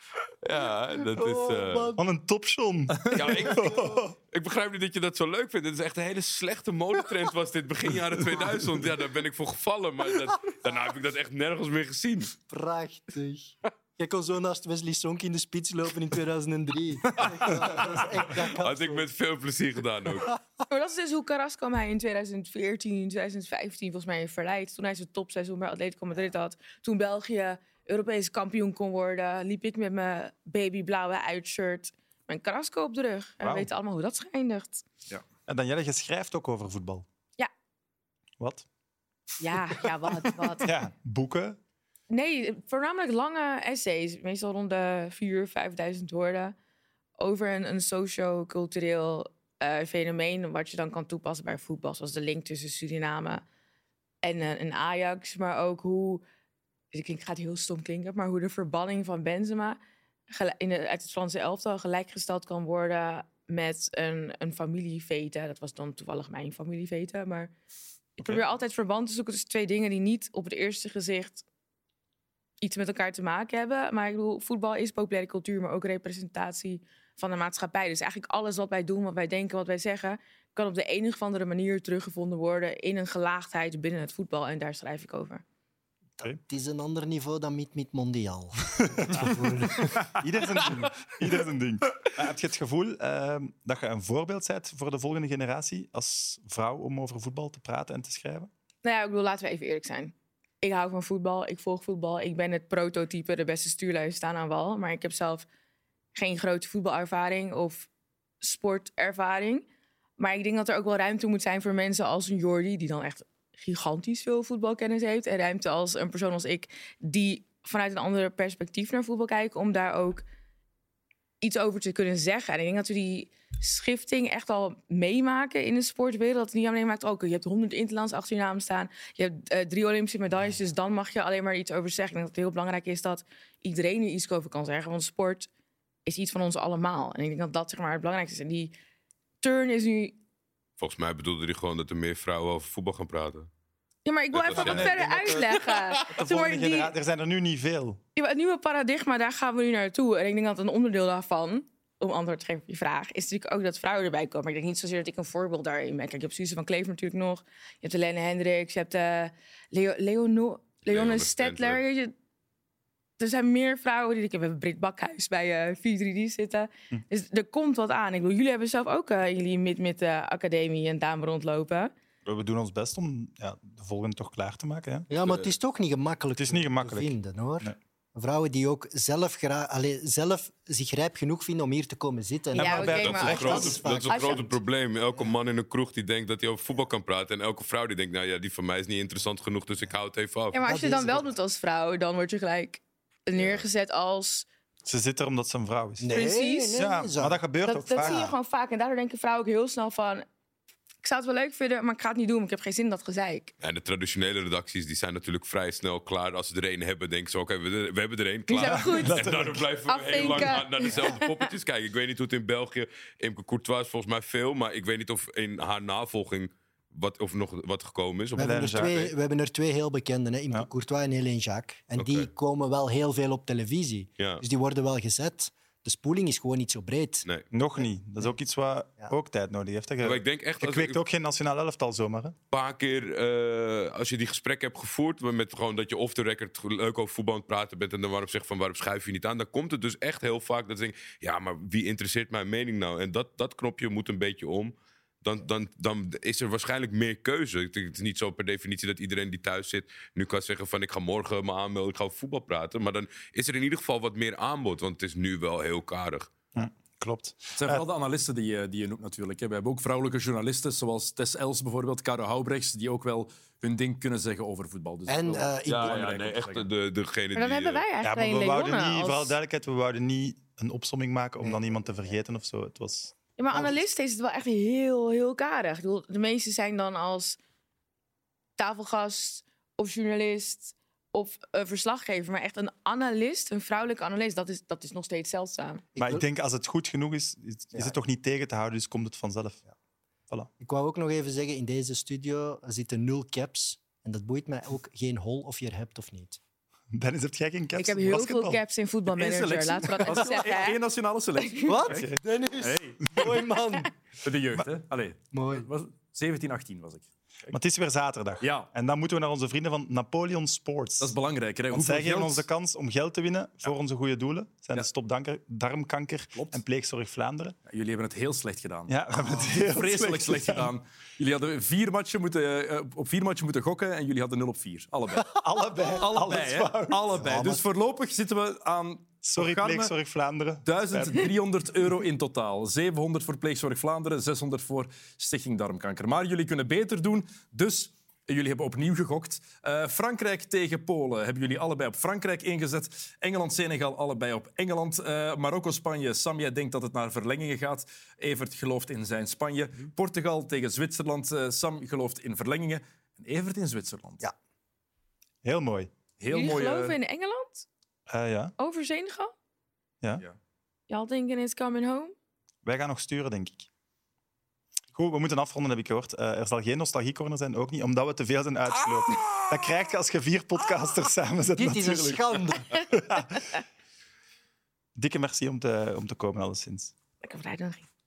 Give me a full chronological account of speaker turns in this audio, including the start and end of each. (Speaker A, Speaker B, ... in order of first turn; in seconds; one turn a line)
Speaker A: 0.5-1.9
Speaker B: 1.1-2.0
Speaker C: 2.0-4.1
Speaker D: 2.9-3.3
Speaker A: 3.1-12.3
Speaker B: 3.5-4.0
Speaker B: 12.5-19.1
Speaker A: 17.2-17.5
Speaker A: 18.4-20.3
Speaker E: 20.7-34.9
Speaker C: 33.4-33.7
Speaker C: 35.5-37.0
Speaker C: 38.4-38.7
Speaker E: 39.4-40.7
Speaker C: 40.6-41.6
Speaker E: 42.1-46.5
Speaker E: 47.2-53.4
Speaker E: 54.2-56.2
Speaker E: 56.9-59.8
Speaker E: 60.3-67.5
Speaker E: 68.2-71.5
Speaker E: 72.6-85.4
Speaker B: 86.2-90.2
Speaker C: 88.9-98.5
Speaker E: 98.8-105.5
Speaker E: 106.1-107.9
Speaker E: 108.4-109.7
Speaker E: 110.2-120.2
Speaker E: 121.4-135.5
Speaker E: 136.1-138.7
Speaker E: 139.4-140.2
Speaker A: 140.8-143.5
Speaker E: 144.1-146.9
Speaker A: 144.3-146.0
Speaker C: 144.5-148.0
Speaker E: 148.2-162.1
Speaker A: 160.9-161.8
Speaker E: 163.2-171.9
Speaker C: 172.3-175.1
Speaker B: 175.1-184.6
Speaker A: 175.1-175.5
Speaker C: 176.4-177.8
Speaker C: 182.6-183.8
Speaker E: 182.6-184.5
Speaker A: 182.9-190.6
Speaker E: 190.5-194.5
Speaker B: 190.6-191.3
Speaker A: 193.4-193.6
Speaker C: 194.8-196.2
Speaker B: 196.0-198.3
Speaker E: 196.1-196.9
Speaker C: 196.7-198.3
Speaker E: 197.7-200.2
Speaker E: 201.0-203.5
Speaker A: 203.6-219.1
Speaker E: 208.5-209.3
Speaker C: 208.6-209.7
Speaker E: 209.9-211.5
Speaker C: 210.2-210.6
Speaker B: 218.3-227.3
Speaker C: 218.4-219.0
Speaker A: 222.0-222.3
Speaker C: 227.5-232.3
Speaker A: 230.0-231.0
Speaker A: 232.5-256.3
Speaker C: 256.5-257.9
Speaker D: 257.6-266.7
Speaker B: 265.1-266.1
Speaker A: 265.7-267.8
Speaker E: 267.4-269.4
Speaker C: 268.0-273.1
Speaker E: 273.4-277.4
Speaker B: 273.5-273.8
Speaker E: 278.6-285.9
Speaker B: 285.9-286.3
Speaker C: 286.0-289.6
Speaker B: 290.6-296.4
Speaker C: 296.9-298.6
Speaker E: 297.8-300.8
Speaker D: 299.1-303.2
Speaker E: 301.4-301.7
Speaker B: 301.7-303.9
Speaker D: 304.2-307.6
Speaker B: 305.3-305.7
Speaker C: 307.5-311.2
Speaker D: 308.4-308.7
Speaker D: 311.0-312.5
Speaker C: 311.7-317.6
Speaker D: 316.3-316.6
Speaker D: 317.7-325.3
Speaker C: 318.9-320.7
Speaker B: 319.3-319.6
Speaker C: 325.3-327.2
Speaker D: 325.9-329.9
Speaker B: 327.1-327.6
Speaker C: 329.2-331.4
Speaker D: 330.6-354.3
Speaker C: 355.4-355.9
Speaker D: 356.2-357.0
Speaker E: 356.3-357.7
Speaker C: 358.1-358.5
Speaker E: 358.6-359.3
Speaker E: 360.9-362.1
Speaker C: 362.6-363.7
Speaker C: 364.9-373.6
Speaker B: 371.6-372.7
Speaker C: 375.0-376.9
Speaker E: 377.2-377.9